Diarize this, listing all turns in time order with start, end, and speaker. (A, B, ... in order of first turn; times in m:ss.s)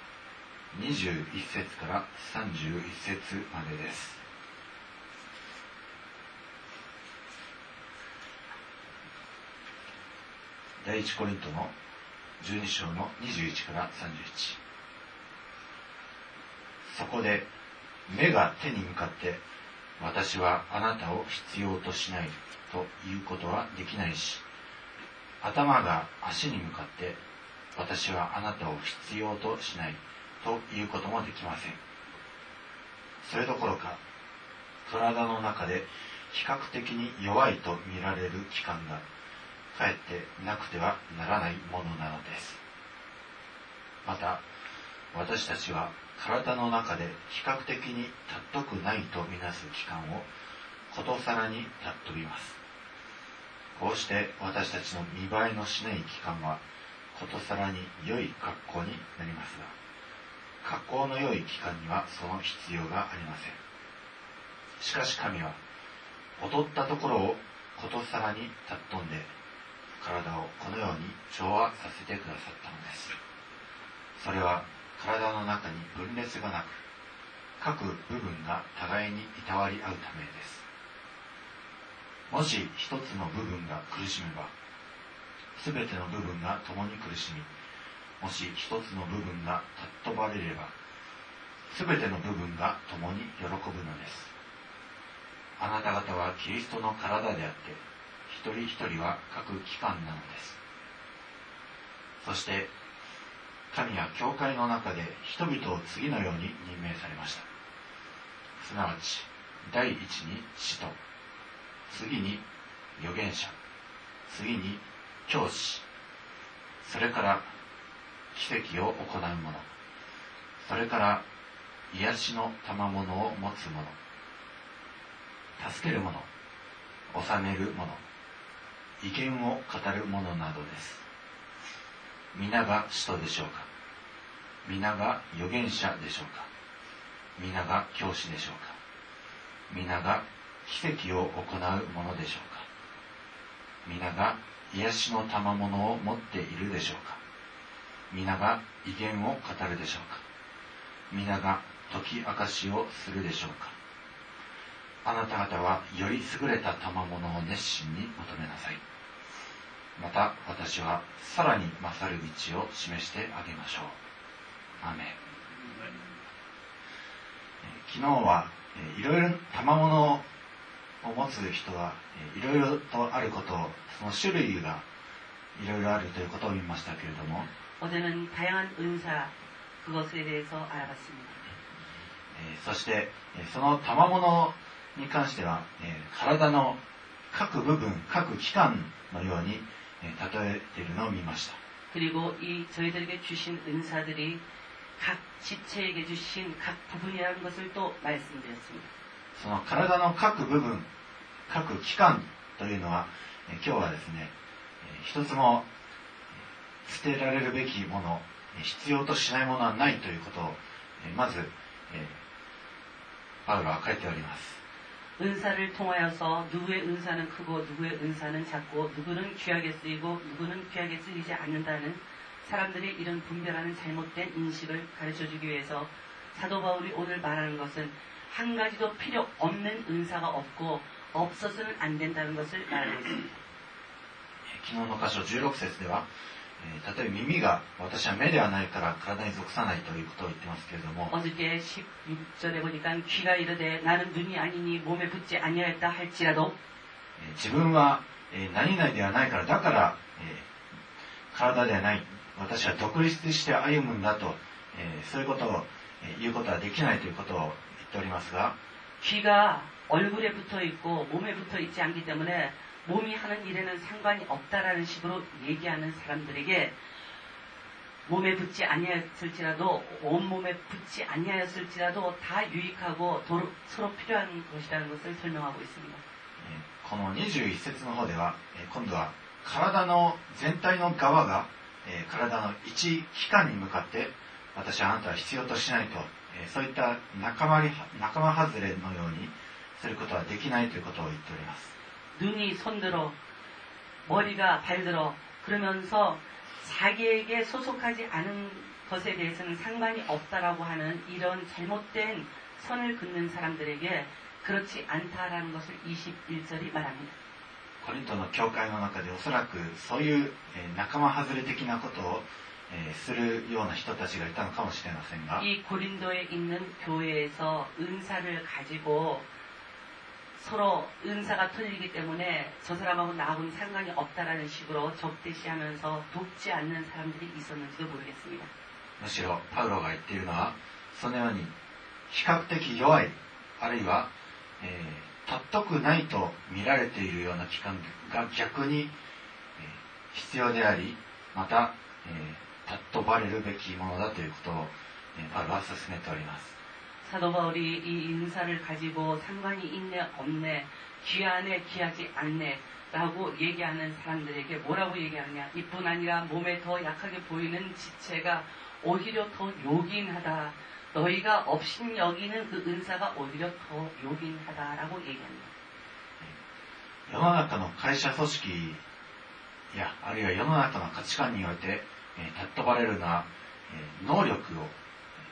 0:00.7-0:04.2 A
0:10.8-0:11.7 A
0:12.4-0:14.6 A
0:16.9-0:17.5 A
0:18.1-0:19.4 A
0:20.0-0:24.4 A
0:25.4-0:27.2 A
0:27.7-0:31.8 A
0:33.2-0:34.0 A
0:34.8-0:39.0 A
0:39.7-0:42.6 A
0:44.0-0:44.4 A
0:45.1-0:50.2 A
0:50.9-0:52.6 A
0:53.7-0:56.6 A
0:57.1-0:59.7 A
1:00.6-1:03.6 A
1:04.8-1:05.6 A
1:06.4-1:09.3 A
1:10.0-1:13.2 A
1:14.2-1:16.8 A
1:17.6-1:20.6 A
1:22.3-1:24.5 A
1:25.6-1:27.5 A
1:28.2-1:30.7 A
1:31.7-1:34.3 A
1:35.6-1:40.6 A
1:42.2-1:42.7 A
1:43.7-1:47.5 A
1:48.6-1:51.0 A
1:51.9-1:52.4 A
1:53.0-1:53.6 A
1:54.3-1:55.8 A
1:56.8-1:57.4 A
1:58.3-1:59.7 A
2:00.6-2:01.2 A
2:01.9-2:03.9 A
2:05.6-2:06.3 A
2:07.1-2:08.0 A
2:09.0-2:11.0 A
2:12.3-2:13.7 A
2:14.6-2:16.5 A
2:17.4-2:18.8 A
2:19.7-2:22.7 A
2:23.8-2:27.2 A
2:28.1-2:30.2 A
2:31.1-2:33.7 A
2:35.0-2:38.8 A
2:40.0-2:44.0 A
2:44.8-2:45.2 A
2:47.6-2:50.2 A
2:51.0-2:54.8 A
2:55.6-2:57.5 A
2:57.8-3:01.4 B
3:02.3-3:06.8 A
3:07.3-3:11.6 A
3:11.9-3:14.4 B
3:15.0-3:18.9 B
3:19.3-3:20.8 A
3:21.5-3:25.6 A
3:26.8-3:32.2 A
3:33.4-3:34.6 A
3:35.2-3:53.3 B
3:54.5-3:56.0 A
3:56.6-4:01.1 A
4:01.1-4:06.5 B
4:07.2-4:10.5 A
4:11.3-4:18.5 A
4:19.0-4:26.7 B
4:28.0-4:36.0 B
4:36.4-4:51.7 A
4:52.2-4:53.1 B
4:54.0-5:07.1 B
5:07.8-5:15.4 A
5:15.4-5:19.2 B
5:20.4-5:28.5 B
5:29.0-5:31.5 A
5:32.1-5:34.1 A
5:34.6-5:38.9 A
5:39.6-5:46.5 A
5:47.0-6:05.5 B
6:07.1-6:08.8 A
6:09.7-6:14.7 A